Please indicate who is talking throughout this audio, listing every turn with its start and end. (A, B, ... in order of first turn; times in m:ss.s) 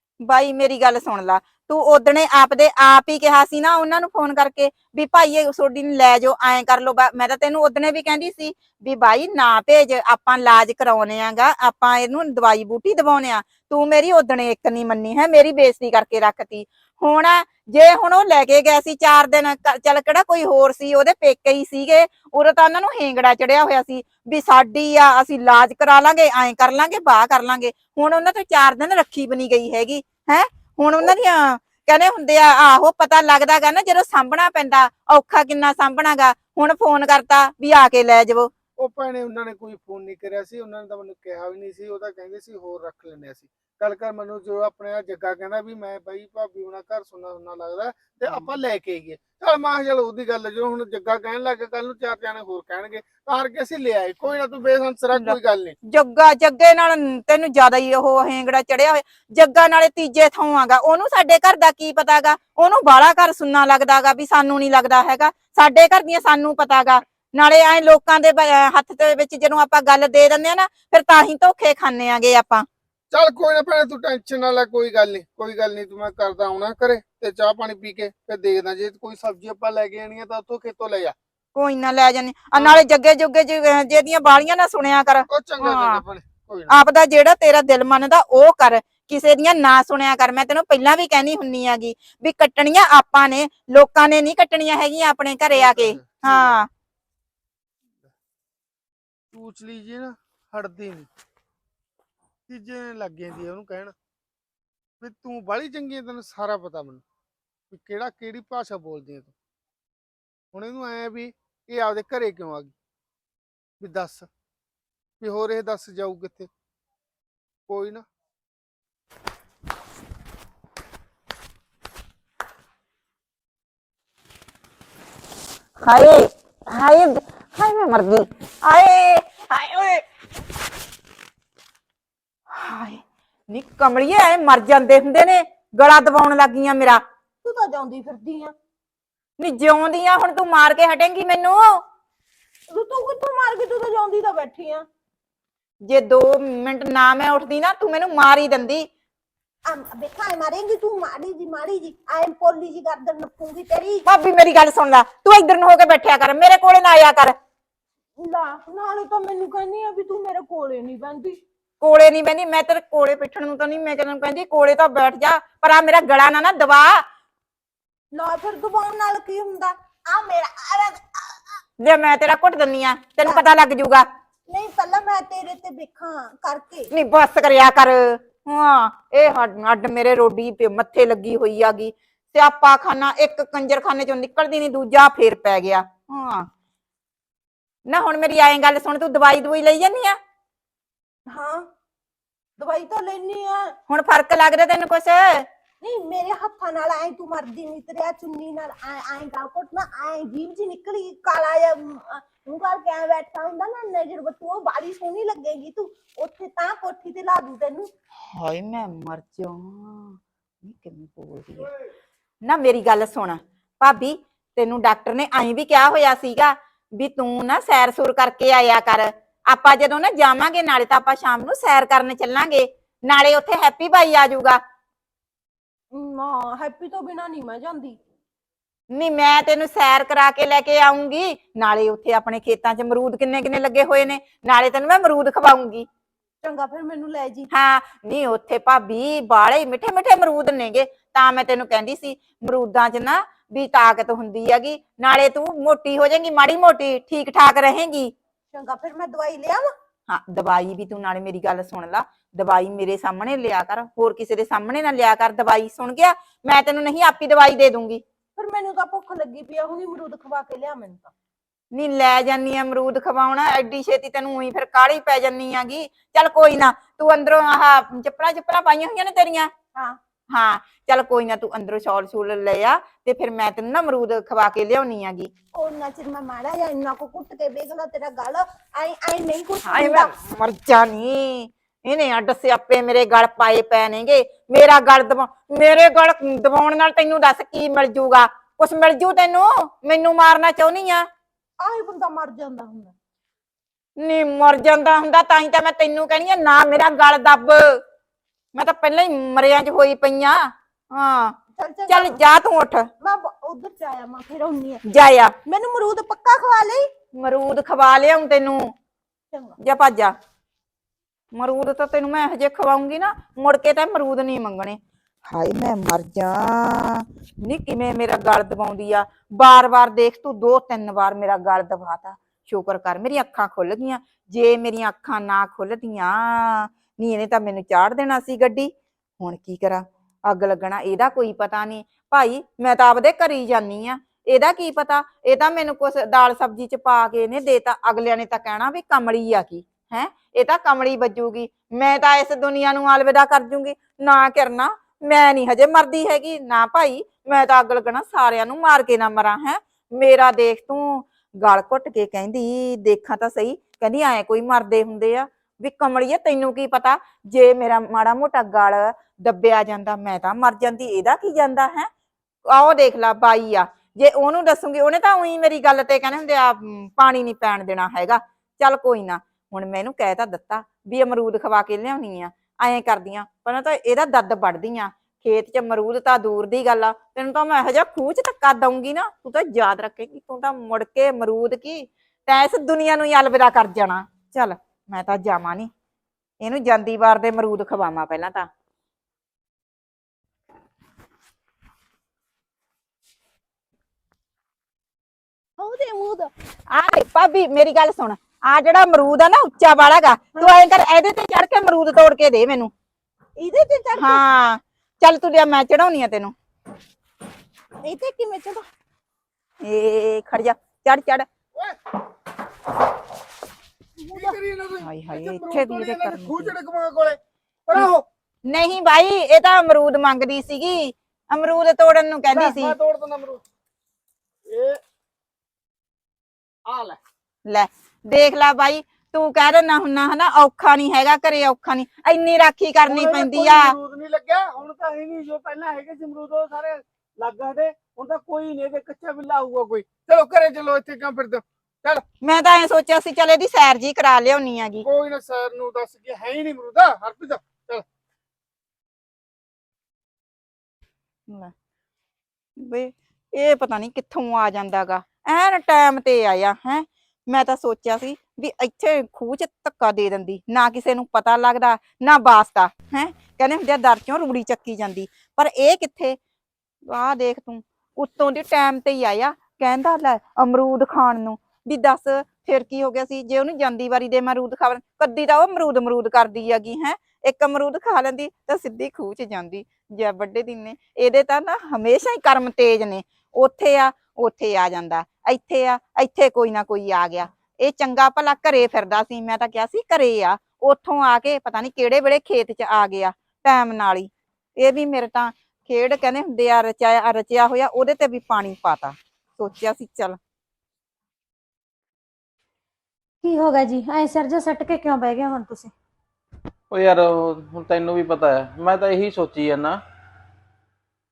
0:00.2-0:38.5 A
0:38.8-0:55.7 B
0:55.9-1:12.7 A
1:13.1-1:21.1 B
1:21.5-1:26.0 A
1:22.5-1:22.8 B
1:25.3-1:26.7 B
1:26.7-1:36.7 A
1:35.5-1:36.6 B
1:39.3-1:41.1 B
1:42.5-1:43.9 B
1:45.0-1:47.0 B
1:47.7-1:49.3 B
1:50.5-1:52.7 B
1:53.8-1:54.3 B
1:55.2-1:56.5 B
1:57.7-1:58.0 B
2:05.8-2:10.0 A
2:12.5-2:17.0 A
2:17.4-2:18.5 C
2:19.4-2:21.8 A
2:22.7-2:24.8 C
2:25.8-2:28.9 A
2:29.7-2:34.0 C
2:34.0-2:37.4 A
2:38.2-2:41.4 C
2:41.8-2:47.0 A
2:48.1-2:51.3 C
2:51.8-2:54.0 A
2:54.5-2:56.8 C
2:56.9-3:06.4 A
3:07.9-3:10.2 A
3:11.3-3:11.6 C
3:12.6-3:13.7 C
3:13.9-3:15.5 A
3:15.8-3:27.9 C
3:28.3-3:31.7 A
3:32.4-3:44.6 A
3:45.9-3:48.0 C
3:48.9-3:55.9 A
3:56.4-3:57.5 C
3:57.5-4:08.1 A
4:08.5-4:09.7 C
4:10.1-4:18.0 A
4:18.4-4:21.1 C
4:21.7-4:29.5 A
4:30.3-4:35.3 A
4:35.6-4:40.1 C
4:39.6-4:51.1 A
4:51.6-4:52.9 C
4:54.0-4:57.8 A
4:58.5-5:01.3 A
5:01.6-5:02.1 C
5:01.9-5:02.8 A
5:03.0-5:04.8 C
5:04.8-5:05.3 A
5:05.5-5:06.9 C
5:07.1-5:08.7 A
5:09.6-5:10.1 A
5:11.3-6:01.9 A
6:02.5-6:25.7 A
6:26.4-6:28.5 A
6:35.6-6:36.3 C
6:36.7-6:42.7 A
6:43.4-6:44.2 C
6:43.9-6:46.3 A
6:47.8-6:48.6 C
6:49.6-6:51.3 A
6:54.1-6:58.0 B
6:54.8-6:56.5 A
6:58.5-7:02.7 A
7:02.3-7:03.4 B
7:04.5-7:04.8 B
7:06.6-7:07.0 B
7:07.4-7:13.7 A
7:12.9-7:22.0 B
7:22.2-7:24.8 A
7:24.8-7:27.8 B
7:32.6-7:46.2 A
7:46.8-8:20.2 A
8:23.2-8:25.7 D
8:26.7-8:29.8 E